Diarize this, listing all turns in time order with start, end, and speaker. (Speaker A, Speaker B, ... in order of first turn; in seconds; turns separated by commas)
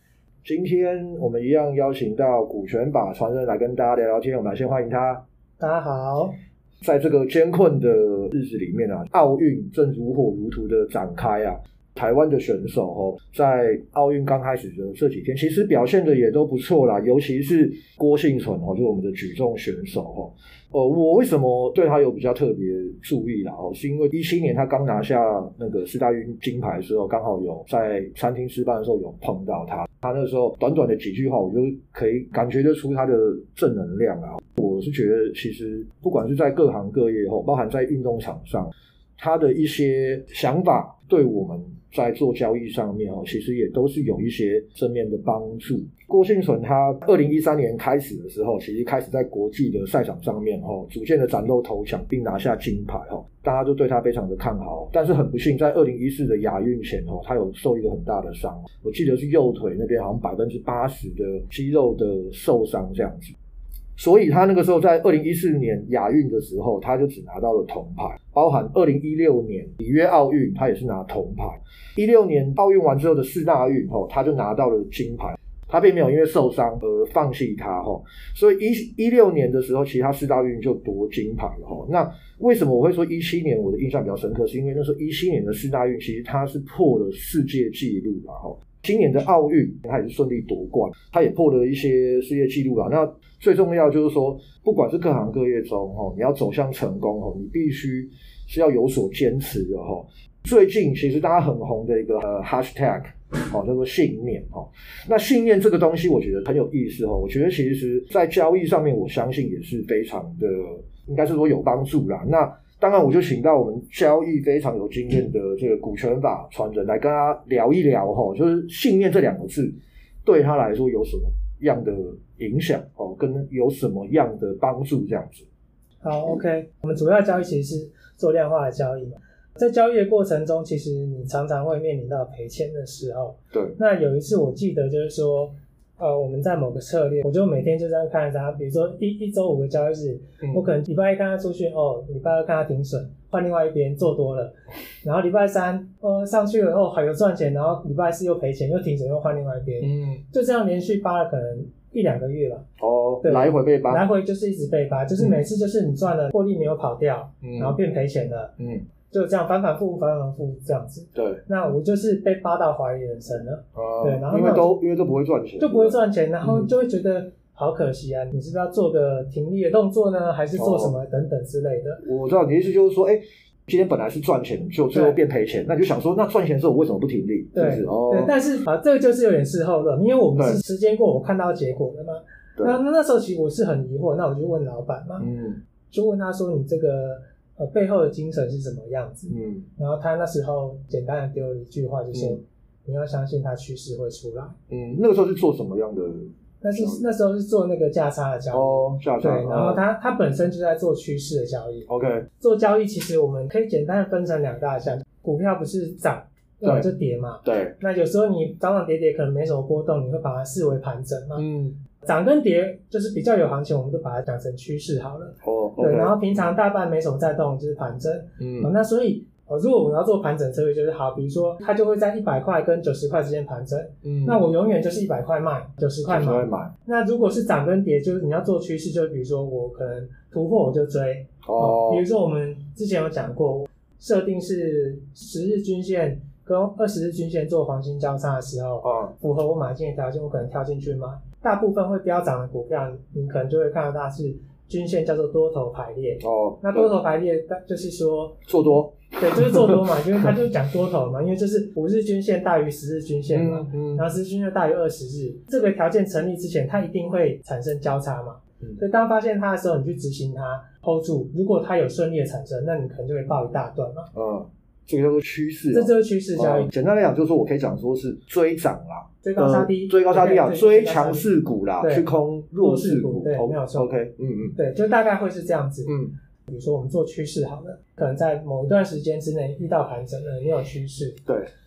Speaker A: 0.4-5.2, Speaker B: 5.6-6.3, Speaker A: 6.8-63.3, Speaker A: 64.0-125.5, Speaker B: 126.0-152.6, Speaker A: 140.4-140.7, Speaker A: 149.8-150.2, Speaker A: 152.8-154.1, Speaker B: 153.2-158.5, Speaker A: 157.4-157.8, Speaker A: 158.6-158.8, Speaker B: 159.1-164.8, Speaker A: 161.1-161.4, Speaker A: 163.7-166.7, Speaker B: 165.6-172.0, Speaker A: 170.5-170.9, Speaker A: 172.0-178.3, Speaker B: 174.9-175.2, Speaker B: 177.5-185.2, Speaker A: 180.3-180.6, Speaker A: 185.2-185.6, Speaker B: 185.9-194.5, Speaker A: 189.3-189.7, Speaker A: 192.1-192.4, Speaker A: 194.7-197.0, Speaker B: 196.6-201.9, Speaker A: 198.5-199.8, Speaker A: 201.9-202.2, Speaker B: 202.4-211.4, Speaker A: 206.6-206.9, Speaker A: 207.4-207.7, Speaker A: 211.4-211.8, Speaker B: 212.0-248.5, Speaker A: 215.4-216.3, Speaker A: 218.4-218.7, Speaker A: 224.0-224.4, Speaker A: 226.0-226.7, Speaker A: 231.4-232.0, Speaker A: 238.8-239.1, Speaker A: 246.2-246.9, Speaker A: 248.5-250.3, Speaker B: 249.1-264.1, Speaker A: 253.3-254.1, Speaker A: 264.1-274.6, Speaker B: 265.7-266.7, Speaker B: 269.2-271.3, Speaker B: 272.6-273.9, Speaker B: 274.6-275.9, Speaker A: 275.9-276.1, Speaker B: 276.5-281.2